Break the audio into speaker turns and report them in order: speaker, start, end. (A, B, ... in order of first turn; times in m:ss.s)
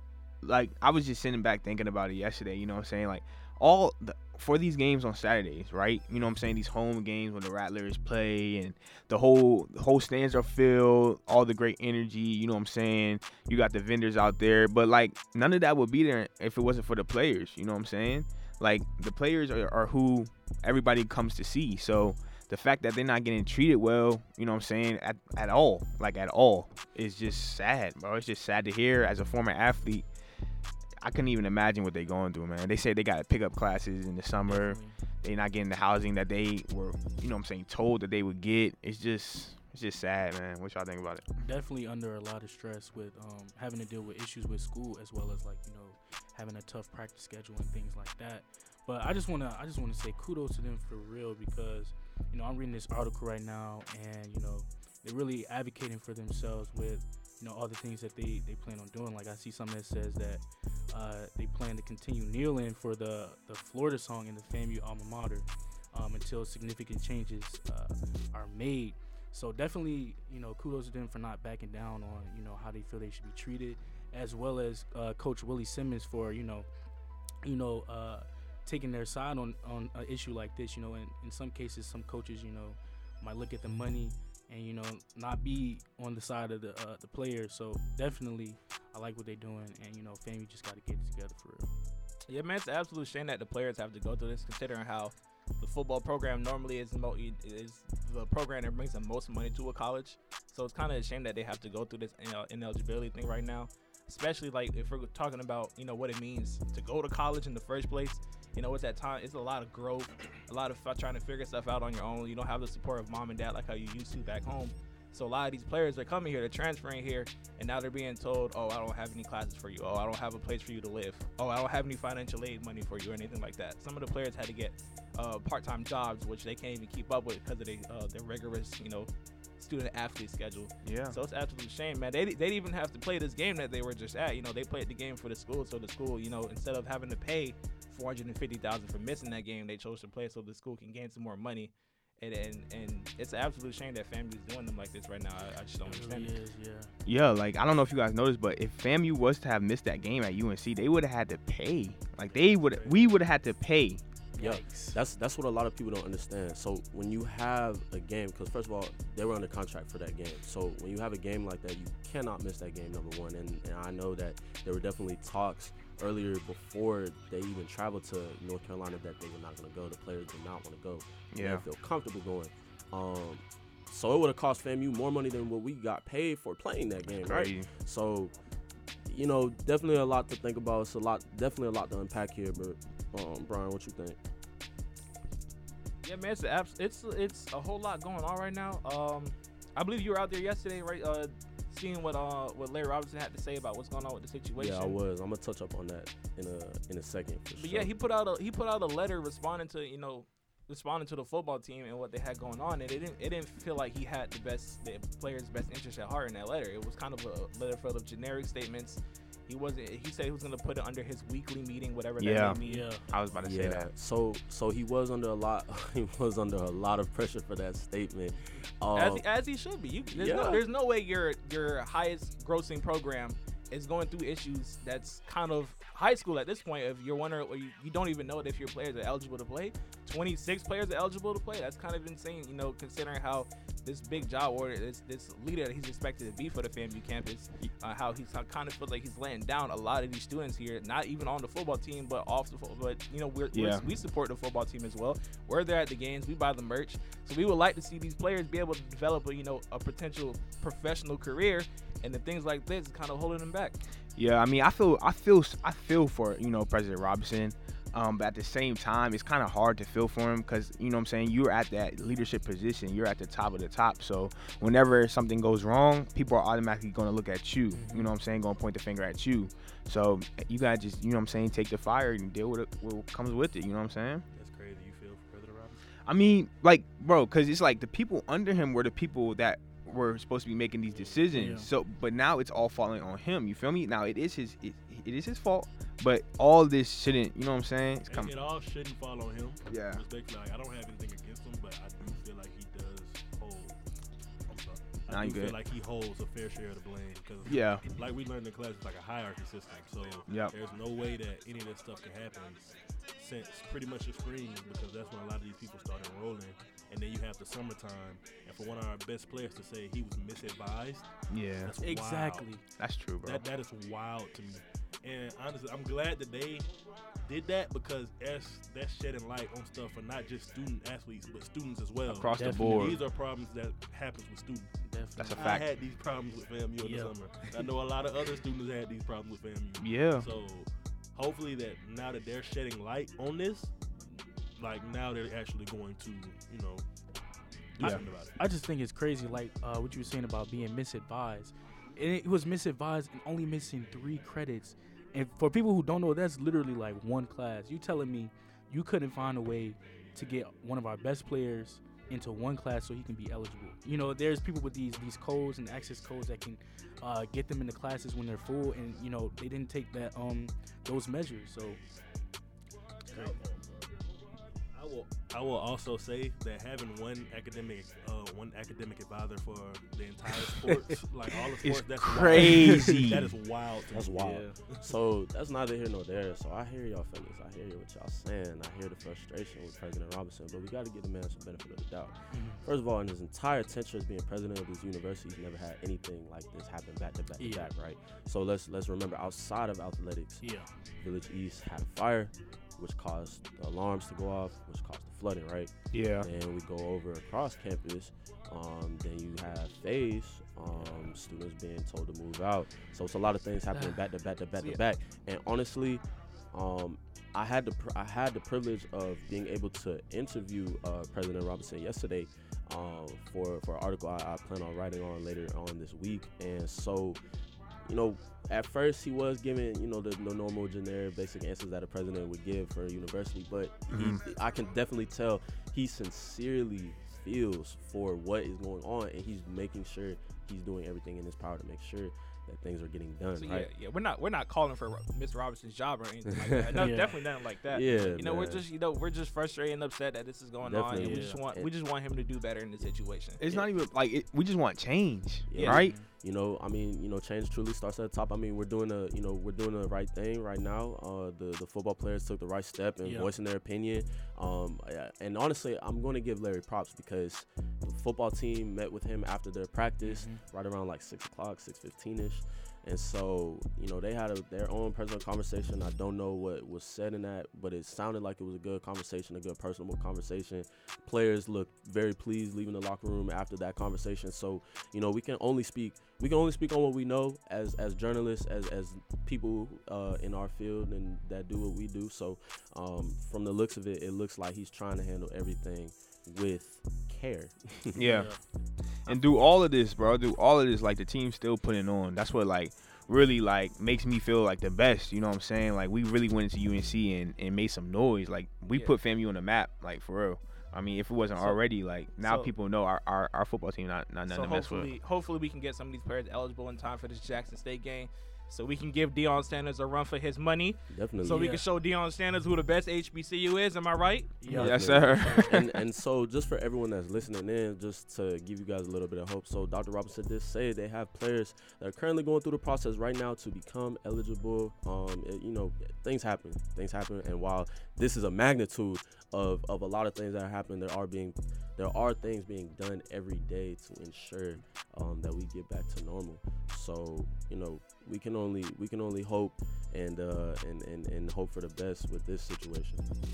0:00.4-0:30.0 A
0:31.0-0:41.2 A
0:34.5-0:35.0 B
0:41.4-1:16.7 B
1:17.4-1:31.7 B
1:32.3-2:26.3 C
2:10.8-2:11.2 A
2:25.9-2:26.9 B
2:27.0-2:34.0 A
2:32.3-2:33.1 D
2:34.4-2:35.0 B
2:34.4-2:58.3 E
2:51.3-2:51.6 A
2:57.3-2:57.7 A
2:59.1-3:04.2 E
3:06.0-3:15.0 C
3:14.6-3:17.9 E
3:17.6-3:32.9 C
3:32.2-3:33.9 A
3:32.6-3:33.1 B
3:33.4-3:39.2 E
3:39.0-4:13.8 C
3:40.1-3:40.6 E
4:03.5-4:03.9 A
4:14.2-4:34.2 A
4:27.7-4:28.1 B
4:34.3-4:35.8 D
4:36.0-4:48.3 A
4:40.9-4:41.3 D
4:41.3-4:41.7 B
4:48.1-4:53.8 D
4:49.7-4:50.0 A
4:54.5-5:12.7 D
4:55.1-4:55.6 A
4:57.4-4:57.8 A
5:00.3-5:00.5 A
5:11.3-5:11.7 A
5:11.8-5:12.6 B
5:12.8-5:13.5 A
5:13.2-5:16.7 D
5:17.2-5:24.8 D
5:22.1-5:23.0 A
5:22.3-5:23.0 B
5:24.8-5:25.6 B
5:25.2-5:25.7 A
5:25.4-5:33.7 D
5:26.8-5:27.6 B
5:29.8-5:30.3 A
5:34.6-5:36.8 D
5:37.7-5:38.4 D
5:37.8-6:01.8 B
6:03.1-6:03.9 D
6:03.1-6:03.4 B
6:04.7-6:14.9 D
6:11.6-6:13.4 A
6:12.4-6:13.2 B
6:13.9-6:30.4 E
6:14.2-6:14.6 B
6:22.3-6:22.6 B
6:27.4-6:27.7 B
6:30.4-6:30.7 B
6:31.0-6:57.2 E
6:35.9-6:36.3 A
6:57.8-7:13.7 E
7:03.9-7:04.2 A
7:13.4-7:23.7 C
7:16.4-7:16.9 E
7:16.8-7:17.1 B
7:17.7-7:18.6 E
7:20.6-7:21.7 E
7:21.0-7:21.3 B
7:23.4-7:25.9 A
7:25.5-8:08.0 E
7:25.5-7:25.8 C
7:25.8-7:26.1 B
7:40.0-7:40.4 B
8:08.0-8:08.3 A
8:08.0-8:08.4 B
8:09.1-8:24.9 A
8:22.2-8:22.5 C
8:24.3-8:34.5 C
8:30.9-8:31.5 E
8:31.2-8:31.6 B
8:34.4-8:35.6 B
8:34.5-9:03.0 E
8:34.5-8:35.7 A